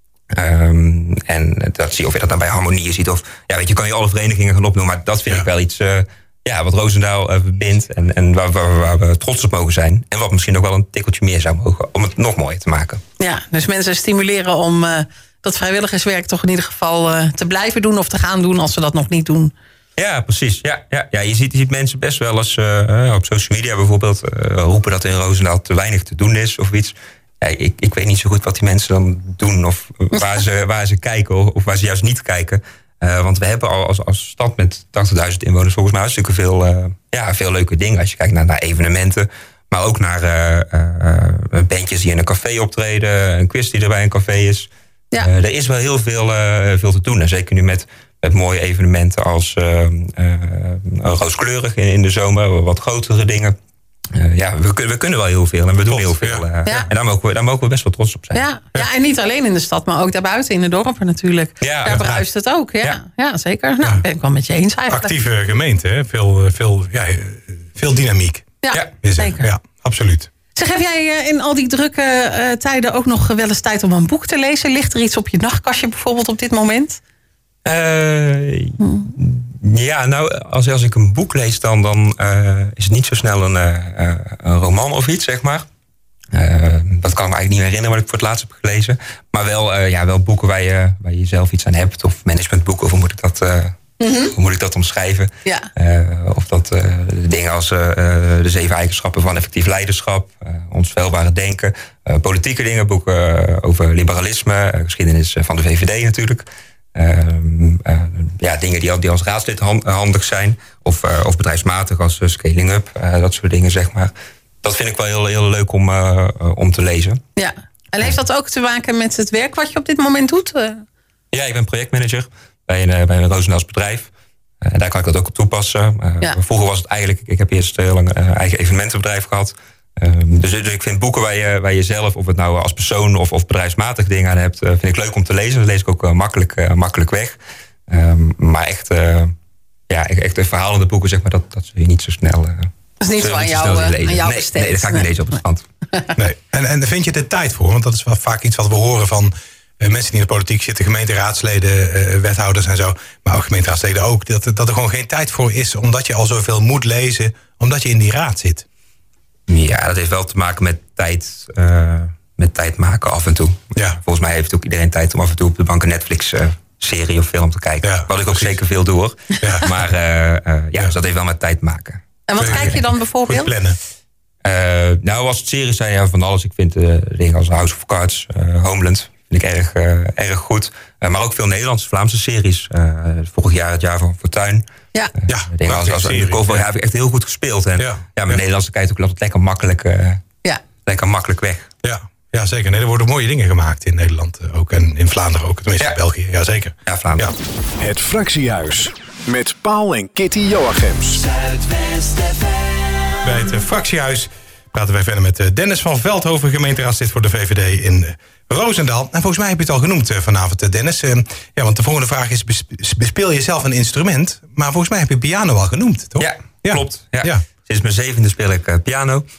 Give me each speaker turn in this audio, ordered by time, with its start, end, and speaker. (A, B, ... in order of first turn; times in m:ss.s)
0:00.3-0:13.0 A
0:13.2-0:19.5 B
0:20.0-0:44.7 A
0:45.2-0:53.6 A
0:54.1-0:58.4 A
0:55.9-0:56.4 C
0:58.3-1:05.1 B
1:01.6-1:02.2 A
1:04.9-1:10.3 C
1:08.6-1:09.5 B
1:10.5-1:17.0 B
1:17.6-1:25.6 A
1:18.8-1:19.1 B
1:26.3-1:33.8 A
1:34.0-1:34.3 B
1:34.3-1:54.1 A
1:54.6-1:57.2 A
1:57.4-2:00.8 B
2:01.3-2:04.1 A
2:04.6-2:19.3 A
2:19.9-2:25.6 A
2:23.0-2:25.1 B
2:26.2-2:38.6 C
2:39.5-2:52.8 A
2:47.8-2:48.5 C
2:49.4-2:49.7 C
2:52.3-2:53.5 B
2:52.4-2:53.8 C
2:54.4-3:04.6 A
3:05.2-3:10.2 A
3:05.3-3:06.7 C
3:07.8-3:08.4 C
3:10.8-3:11.7 A
3:11.8-3:17.3 C
3:16.8-3:17.3 A
3:17.8-3:23.2 D
3:23.2-3:37.4 C
3:36.2-3:39.2 A